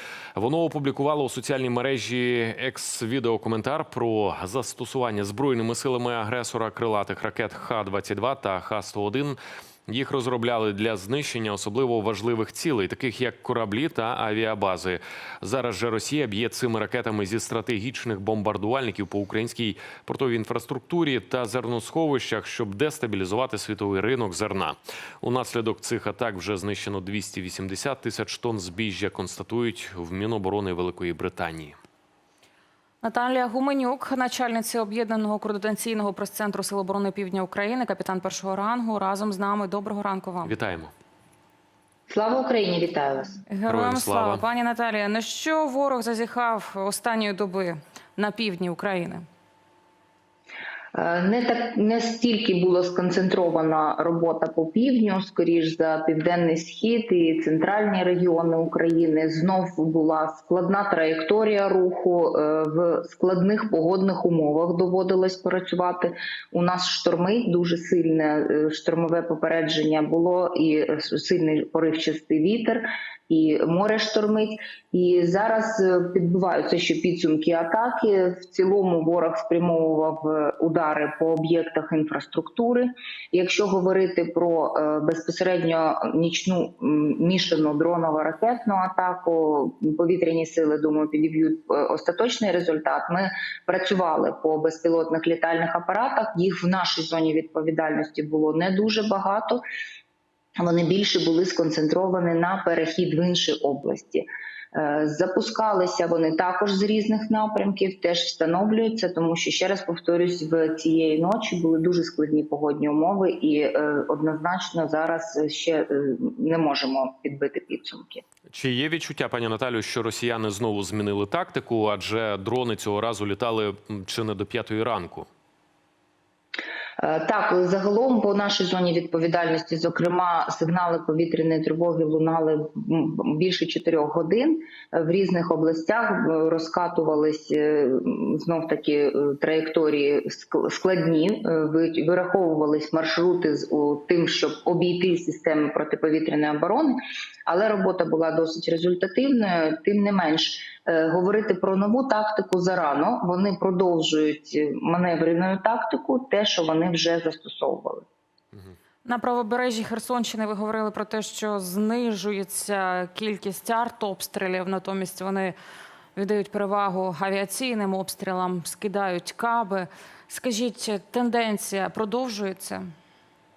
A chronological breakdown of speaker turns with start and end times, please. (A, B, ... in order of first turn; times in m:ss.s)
0:00.4-0:31.8 A
0:33.0-0:40.5 B
0:40.4-0:40.9 A
0:42.1-0:43.4 C
0:43.5-0:49.2 B
0:43.7-0:44.4 A
0:50.9-1:39.6 C
1:40.6-1:58.2 C
1:58.5-2:05.3 A
2:07.0-2:38.1 C
2:39.0-2:45.6 B
2:46.2-2:52.8 B